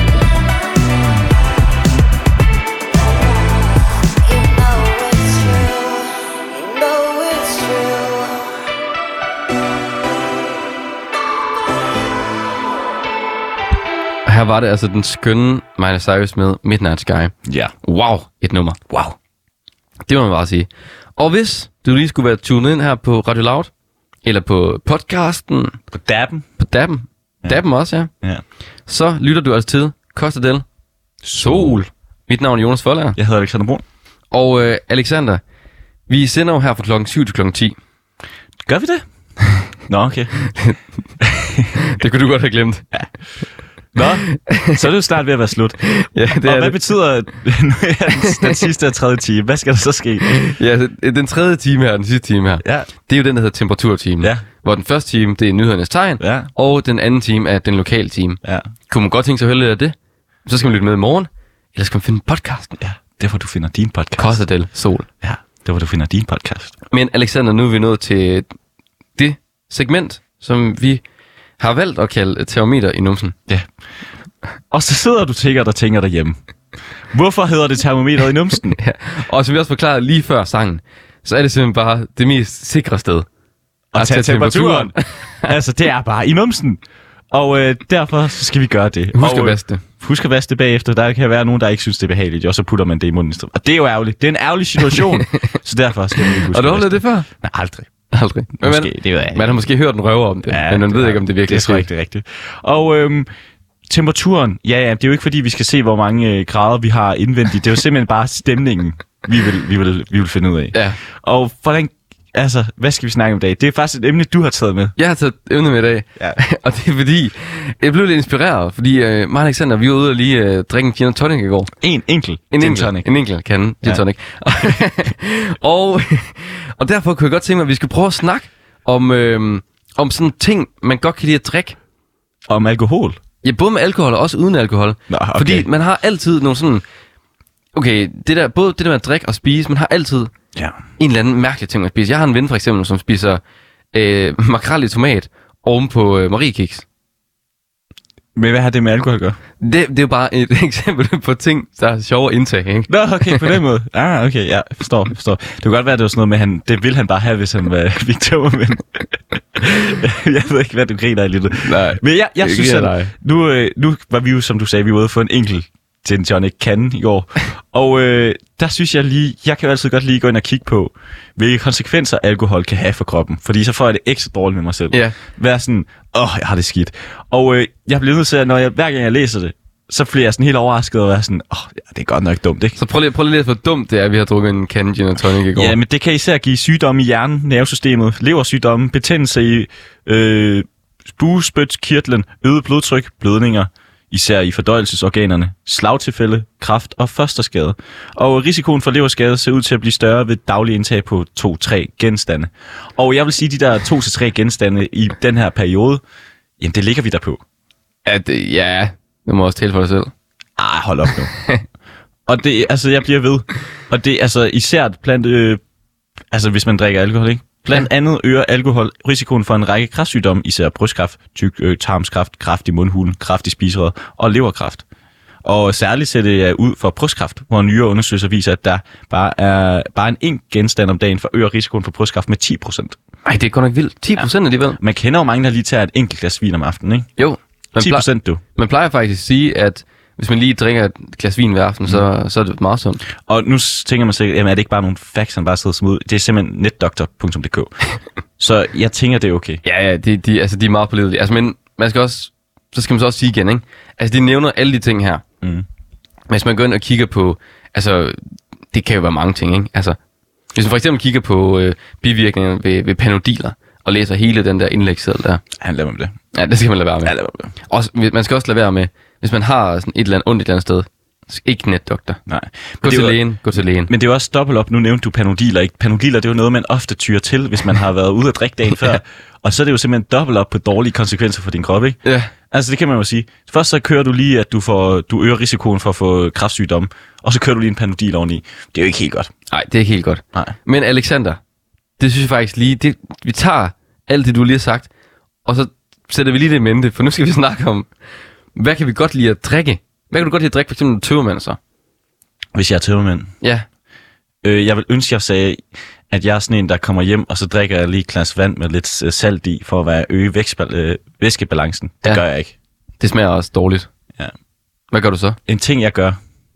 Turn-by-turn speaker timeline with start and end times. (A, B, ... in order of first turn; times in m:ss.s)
0:02.9-0:08.5 A
0:14.2-0:18.8 B
0:17.4-0:17.7 C
0:18.9-0:19.2 C
0:20.0-0:23.7 B
0:24.2-0:25.8 B
0:25.9-0:26.5 C
0:26.6-0:28.1 B
0:28.9-0:30.6 B
0:31.2-0:31.8 C
0:31.3-0:33.2 B
0:33.2-0:33.8 C
0:34.3-0:35.4 B
0:36.1-0:37.8 B
0:38.6-0:39.0 C
0:39.9-0:40.3 C
0:41.2-0:41.7 C
0:41.8-0:42.8 B
0:43.9-0:45.8 C
0:44.3-0:44.8 B
0:45.8-0:46.9 B
0:46.4-0:50.4 C
0:48.2-0:48.6 B
0:50.3-0:59.9 B
0:52.6-0:52.9 C
0:56.2-0:56.5 C
1:00.4-1:02.8 B
1:02.8-1:04.4 C
1:04.2-1:05.1 B
1:05.2-1:06.7 C
1:06.9-1:08.4 B
1:09.2-1:11.0 B
1:11.6-1:13.4 B
1:14.7-1:16.4 C
1:17.1-1:18.8 C
1:18.7-1:23.3 B
1:23.9-1:37.9 C
1:24.0-1:25.5 B
1:29.1-1:29.8 B
1:36.5-1:37.3 B
1:38.1-1:41.9 B
1:38.6-1:39.7 C
1:40.5-1:43.3 C
1:43.9-1:54.9 C
1:55.0-2:01.7 B
2:01.8-2:03.1 C
2:02.5-2:11.8 B
2:12.5-2:13.2 C
2:13.4-2:16.8 B
2:15.1-2:15.7 C
2:17.7-2:20.3 B
2:20.5-2:20.8 C
2:21.0-2:23.4 B
2:23.9-2:26.8 B
2:28.4-2:29.4 C
2:29.6-2:33.4 B
2:32.9-2:39.0 C
2:39.5-3:02.8 C
2:41.6-2:43.1 B
2:54.9-2:55.2 B
3:02.8-3:05.8 B
3:05.5-3:26.0 C
3:26.6-3:27.4 C
3:28.0-3:30.1 B
3:30.6-3:31.3 C
3:32.3-3:35.6 C
3:36.3-3:44.8 C
3:45.4-3:53.0 C
3:53.2-3:54.8 B
3:54.8-3:57.1 C
3:57.2-4:03.0 B
3:57.8-3:58.4 C
4:03.2-4:07.7 C
4:08.4-4:09.6 C
4:09.6-4:15.2 B
4:16.3-4:18.2 B
4:18.7-4:20.0 B
4:20.5-4:25.4 B
4:25.6-4:26.2 C
4:26.3-4:27.1 B
4:27.0-4:27.5 C
4:27.7-4:32.2 B
4:32.3-4:33.2 C
4:32.8-4:33.9 B
4:33.9-4:49.3 C
4:42.0-4:42.3 B
4:49.5-4:51.4 B
4:52.0-4:54.9 B
4:55.4-4:57.9 B
4:58.5-5:01.6 B
5:02.5-5:03.3 C
5:04.4-5:12.5 C
5:13.0-5:13.9 B
5:14.9-5:15.4 B
5:15.5-5:16.2 C